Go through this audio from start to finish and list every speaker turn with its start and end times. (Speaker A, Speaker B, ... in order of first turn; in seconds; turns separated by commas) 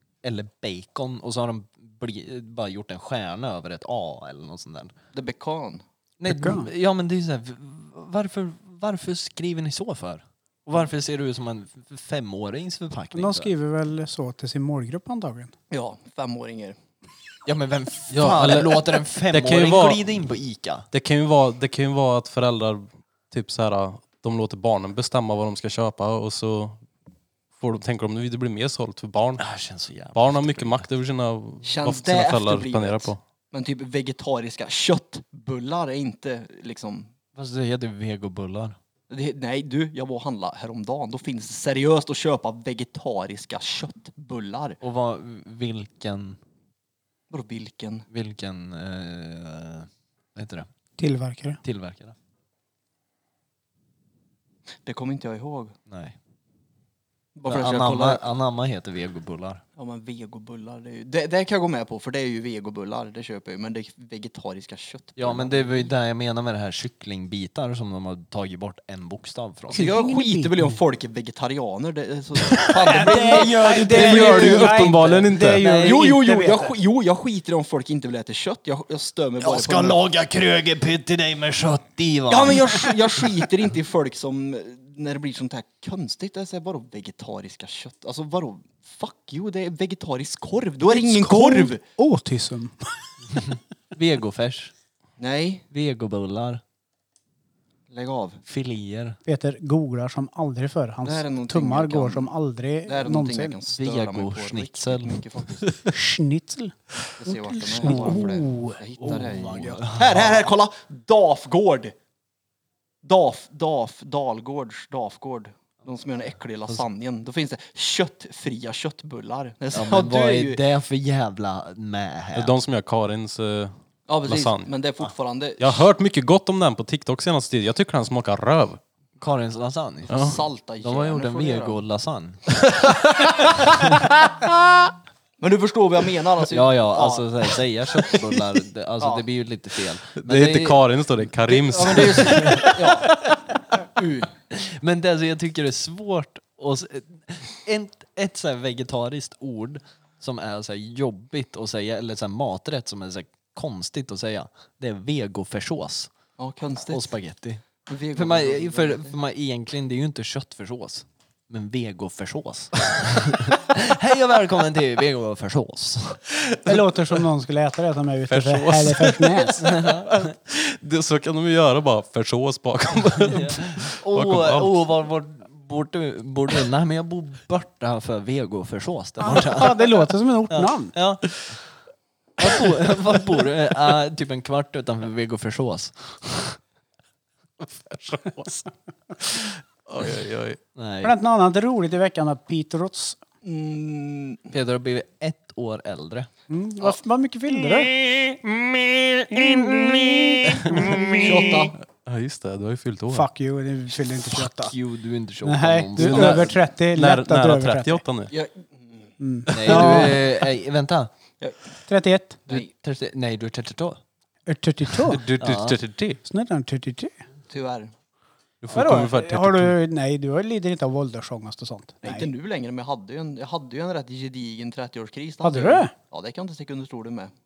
Speaker A: 0.2-4.9, Speaker B: 5.1-5.8, Speaker A: 6.2-13.5, Speaker C: 6.3-6.7, Speaker C: 13.1-15.5, Speaker B: 15.7-16.8, Speaker A: 17.4-20.9, Speaker D: 18.1-20.0, Speaker D: 20.9-26.8, Speaker D: 27.6-29.4, Speaker A: 29.4-30.8, Speaker D: 30.1-33.2, Speaker B: 31.6-37.1, Speaker A: 37.4-38.8, Speaker B: 39.1-44.8, Speaker A: 44.8-46.4, Speaker B: 47.3-48.0, Speaker A: 48.1-50.7, Speaker C: 51.0-51.6, Speaker A: 51.6-52.1, Speaker B: 54.8-55.7, Speaker A: 55.9-56.1, Speaker B: 57.4-58.2, Speaker A: 57.5-59.6, Speaker B: 59.8-65.9, Speaker A: 65.2-69.9, Speaker B: 69.7-74.7, Speaker C: 69.7-70.8, Speaker A: 72.5-76.0, Speaker C: 72.8-76.7, Speaker D: 74.0-75.7, Speaker B: 75.8-80.0, Speaker A: 79.4-83.4, Speaker B: 82.3-91.8, Speaker C: 90.9-93.0, Speaker A: 93.3-94.7, Speaker B: 95.2-95.6, Speaker A: 95.7-96.6, Speaker B: 97.9-98.4, Speaker A: 98.5-99.2, Speaker C: 99.2-103.6, Speaker B: 101.0-102.3, Speaker B: 102.8-105.7, Speaker A: 103.7-105.6, Speaker C: 105.9-109.2, Speaker B: 107.2-111.9, Speaker A: 107.8-108.2, Speaker A: 109.0-110.5, Speaker B: 113.0-120.6, Speaker A: 119.7-122.5, Speaker D: 122.3-124.7, Speaker B: 124.1-125.8, Speaker D: 125.6-128.8, Speaker A: 129.2-130.3, Speaker B: 130.1-131.8, Speaker D: 130.1-130.4, Speaker A: 130.8-132.5, Speaker D: 132.7-134.9, Speaker B: 135.4-137.3, Speaker A: 136.5-140.8, Speaker B: 139.0-139.2, Speaker D: 140.2-143.0, Speaker B: 141.5-143.2, Speaker A: 141.8-143.0, Speaker B: 143.8-144.3, Speaker A: 144.5-156.1, Speaker B: 156.4-157.1, Speaker A: 156.9-157.6, Speaker B: 157.9-159.1, Speaker A: 158.1-166.2, Speaker C: 166.6-169.7, Speaker D: 168.3-174.7, Speaker A: 169.6-170.3, Speaker A: 173.2-181.6, Speaker C: 179.2-180.9, Speaker A: 182.4-186.6, Speaker D: 187.6-188.7, Speaker D: 189.2-190.6, Speaker A: 190.8-191.1, Speaker C: 191.0-193.2, Speaker B: 193.4-194.5, Speaker A: 194.5-196.3, Speaker C: 196.5-197.9, Speaker D: 197.7-203.3, Speaker C: 199.8-200.1, Speaker C: 200.6-201.5, Speaker B: 201.2-201.8, Speaker C: 203.1-204.7, Speaker A: 204.1-206.5, Speaker C: 205.4-208.0, Speaker D: 205.9-208.3, Speaker B: 208.3-209.1, Speaker C: 209.2-210.2, Speaker A: 209.5-211.1, Speaker B: 209.7-210.2, Speaker C: 211.9-212.4, Speaker A: 212.5-214.0, Speaker C: 214.5-215.2, Speaker D: 215.1-216.2, Speaker A: 215.4-215.8, Speaker C: 216.2-217.1, Speaker B: 217.5-217.9, Speaker D: 218.6-219.8, Speaker C: 218.7-222.3, Speaker B: 222.0-227.3, Speaker C: 225.4-225.9